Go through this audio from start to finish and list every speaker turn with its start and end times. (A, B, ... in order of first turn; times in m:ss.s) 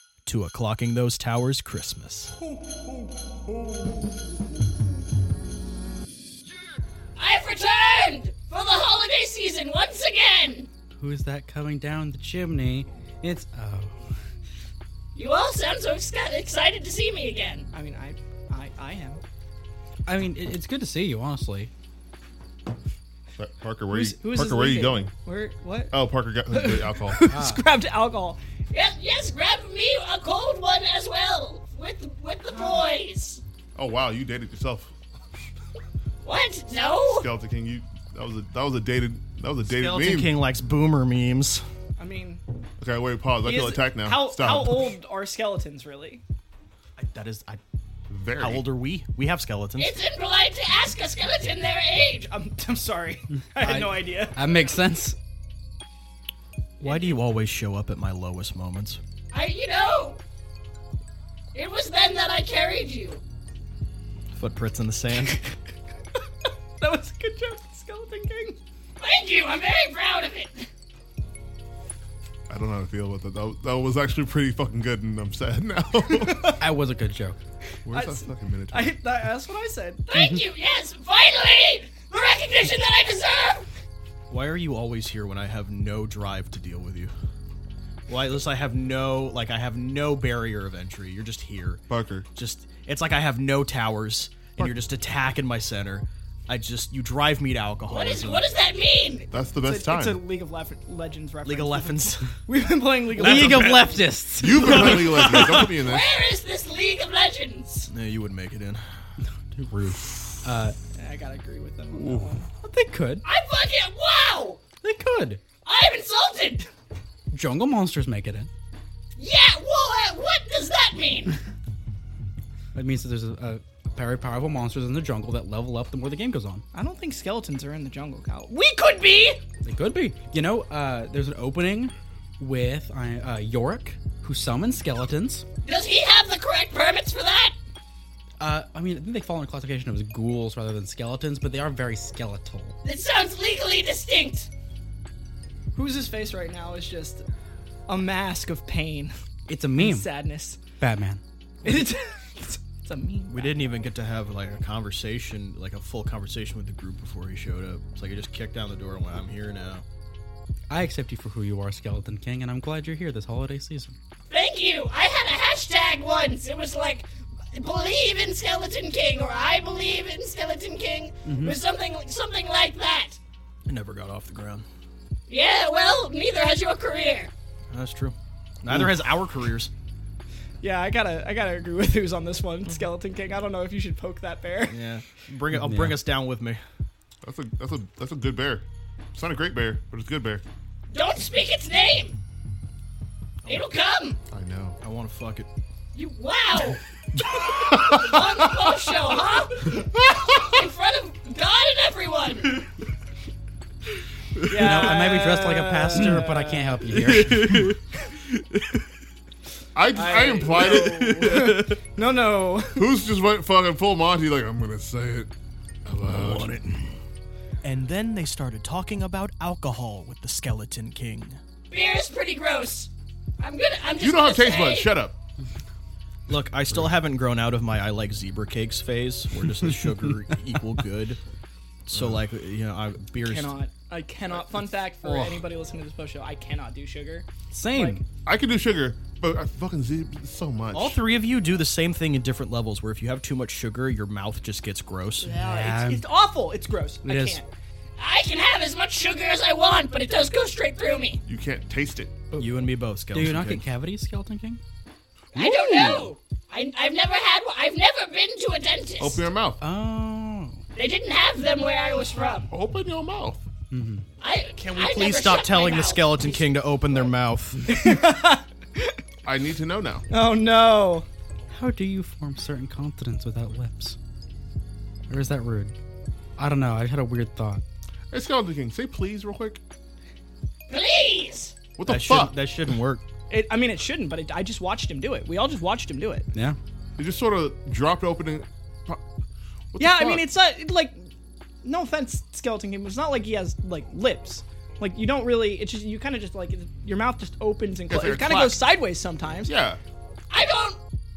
0:00.2-0:02.3 A
0:07.2-0:10.7 B
0:11.0-0:14.1 C
0:15.1-0:17.6 B
0:17.7-0:19.2 D
0:20.0-0:21.7 C
0:23.4-0:25.1 E
0:23.9-0:25.9 D
0:25.9-0:27.3 E
0:26.5-0:28.4 D
0:27.3-0:27.6 C
0:28.7-0:33.4 B
0:33.8-0:34.9 E
0:36.2-0:37.3 B
0:37.1-0:40.3 E
0:39.7-0:41.6 A
0:42.0-0:42.4 D
0:42.8-0:44.9 E
0:43.4-0:46.2 D
0:47.0-0:47.6 A
0:48.1-0:48.6 E
0:48.4-0:49.9 A
0:49.8-0:52.3 B
0:52.3-0:54.6 D
0:53.6-0:54.0 A
0:54.3-0:55.2 C
0:56.8-0:59.0 A
0:56.8-0:57.1 D
0:59.3-1:00.2 B
1:01.5-1:03.2 B
1:04.3-1:05.4 A
1:06.8-1:08.6 D
1:09.0-1:10.7 B
1:12.5-1:16.6 E
1:16.2-1:16.6 D
1:16.6-1:17.4 C
1:17.8-1:19.0 E
1:17.9-1:20.0 D
1:20.1-1:23.7 B
1:20.1-1:20.4 C
1:24.3-1:27.1 A
1:28.1-1:31.8 A
1:31.9-1:32.3 E
1:32.3-1:38.4 A
1:37.9-1:39.3 B
1:39.3-1:40.2 E
1:39.6-1:44.1 D
1:41.4-1:42.3 A
1:43.1-1:44.0 A
1:43.2-1:45.3 C
1:44.3-1:46.1 E
1:44.5-1:45.7 A
1:45.4-1:47.9 B
1:47.9-1:48.8 A
1:49.2-1:50.8 C
1:50.9-1:52.5 D
1:51.9-1:52.4 E
1:52.6-1:53.2 C
1:53.2-1:54.6 B
1:54.8-1:55.4 C
1:55.6-1:56.7 B
1:57.3-1:58.5 C
1:59.2-2:01.4 B
2:02.7-2:06.6 C
2:06.7-2:08.6 D
2:08.5-2:09.4 B
2:09.6-2:15.4 C
2:15.6-2:17.5 B
2:18.4-2:22.7 C
2:22.8-2:24.5 B
2:25.7-2:27.2 D
2:27.9-2:29.1 D
2:29.5-2:30.1 C
2:29.8-2:30.6 D
2:30.8-2:31.2 C
2:31.6-2:33.6 D
2:33.3-2:39.8 A
2:40.7-2:44.0 C
2:44.3-2:53.2 B
2:51.2-2:51.6 C
2:53.7-2:54.6 A
2:55.3-2:57.3 B
2:57.7-2:59.7 A
3:00.6-3:04.8 D
3:04.6-3:06.6 A
3:05.5-3:06.0 C
3:07.2-3:10.4 E
3:10.9-3:12.2 B
3:13.5-3:14.2 B
3:14.3-3:14.8 E
3:14.8-3:15.5 A
3:15.9-3:16.8 B
3:17.2-3:18.9 E
3:17.7-3:22.6 B
3:20.1-3:20.5 E
3:24.5-3:26.9 D
3:24.5-3:27.7 C
3:26.9-3:27.8 A
3:29.7-3:31.3 E
3:29.9-3:32.9 D
3:30.6-3:31.8 A
3:32.8-3:35.3 E
3:35.8-3:36.6 E
3:36.0-3:37.0 A
3:37.6-3:41.4 A
3:41.7-3:44.9 B
3:44.0-3:45.1 E
3:46.3-3:51.2 A
3:51.9-3:53.5 A
3:51.9-3:52.2 E
3:53.2-3:58.0 D
3:57.5-3:58.0 C
3:58.2-4:01.0 E
4:00.7-4:05.3 A
4:05.2-4:07.5 D
4:05.4-4:06.0 C
4:07.0-4:07.4 C
4:08.0-4:11.2 B
4:11.2-4:12.2 E
4:12.3-4:14.6 C
4:12.4-4:13.6 A
4:15.3-4:19.2 B
4:15.4-4:16.1 D
4:19.0-4:19.6 E
4:19.6-4:20.6 C
4:20.8-4:22.5 B
4:22.5-4:23.4 E
4:23.7-4:24.0 C
4:24.2-4:26.5 B
4:24.6-4:27.6 A
4:27.6-4:29.0 D
4:29.2-4:30.0 E
4:30.1-4:31.0 D
4:31.5-4:34.0 C
4:35.1-4:35.7 C
4:36.4-4:37.6 C
4:38.1-4:39.6 E
4:40.7-4:41.5 B
4:41.8-4:42.4 E
4:41.8-4:43.0 A
4:43.3-4:46.3 D
4:47.0-4:49.0 E
4:49.7-4:50.3 E
4:49.8-4:51.1 D
4:51.6-4:59.5 D
4:57.9-4:58.7 E
4:59.4-4:59.8 E
5:00.3-5:00.8 B